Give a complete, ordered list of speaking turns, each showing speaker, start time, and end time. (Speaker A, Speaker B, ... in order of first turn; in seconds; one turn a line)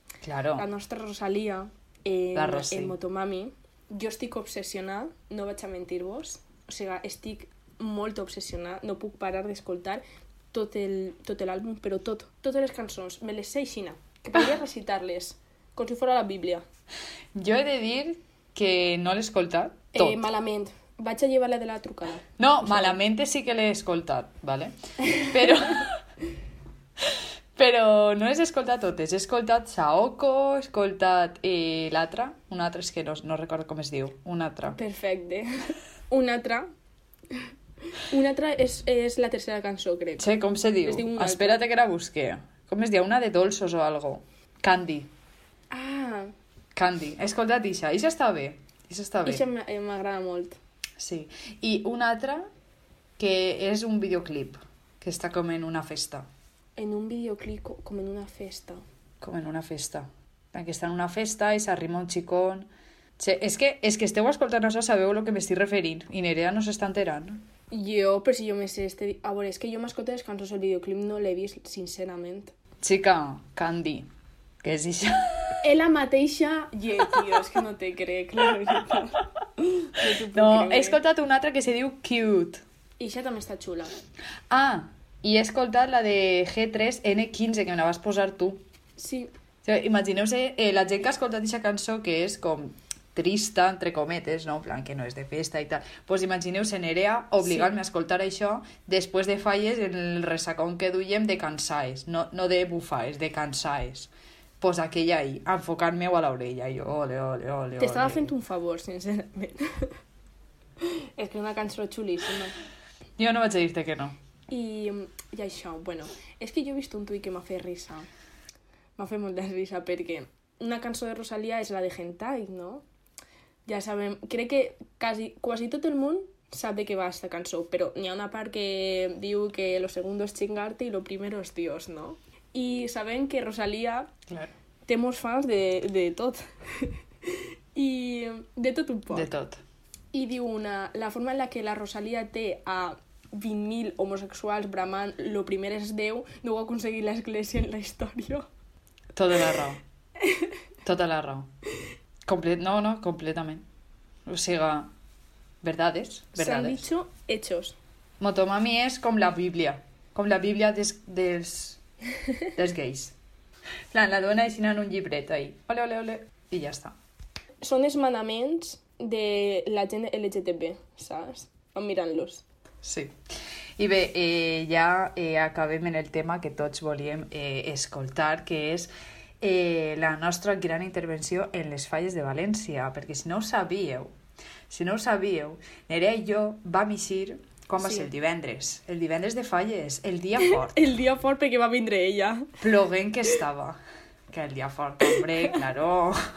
Speaker A: 0.2-0.7
Speaker B: 0.6-10.0
Speaker A: 2.4-3.0
Speaker B: 10.5-16.6
Speaker A: 17.4-20.3
Speaker B: 19.9-23.0
Speaker A: 22.4-26.0
Speaker A: 27.0-34.8
Speaker B: 34.8-36.7
Speaker B: 37.3-40.3
Speaker A: 40.2-45.1
Speaker B: 40.9-41.6
Speaker B: 45.7-46.3
Speaker A: 46.8-49.4
Speaker B: 49.2-50.6
Speaker A: 51.0-52.5
Speaker A: 53.2-56.3
Speaker B: 56.8-58.8
Speaker A: 59.2-62.7
Speaker A: 63.2-67.4
Speaker B: 67.7-72.5
Speaker A: 72.8-74.1
Speaker A: 74.6-75.6
Speaker B: 75.6-81.0
Speaker A: 80.3-82.6
Speaker B: 83.0-83.9
Speaker A: 84.5-88.6
Speaker B: 89.0-89.3
Speaker A: 89.6-108.3
Speaker B: 97.4-97.7
Speaker B: 107.8-110.0
Speaker B: 110.8-112.6
Speaker A: 113.2-114.2
Speaker B: 114.5-118.1
Speaker B: 119.0-122.8
Speaker B: 123.7-134.1
Speaker B: 134.9-139.3
Speaker A: 139.1-139.6
Speaker B: 140.1-148.5
Speaker A: 149.1-149.8
Speaker B: 150.2-150.5
Speaker A: 150.8-151.5
Speaker A: 152.2-153.6
Speaker A: 154.3-154.9
Speaker A: 155.6-156.8
Speaker B: 156.4-157.8
Speaker A: 158.2-161.8
Speaker A: 162.5-163.1
Speaker A: 163.9-166.9
Speaker B: 167.6-172.4
Speaker A: 172.8-173.1
Speaker A: 173.8-178.9
Speaker A: 179.4-184.1
Speaker A: 184.7-190.8
Speaker B: 187.8-188.1
Speaker B: 190.4-192.5
Speaker A: 192.6-193.8
Speaker A: 194.3-196.2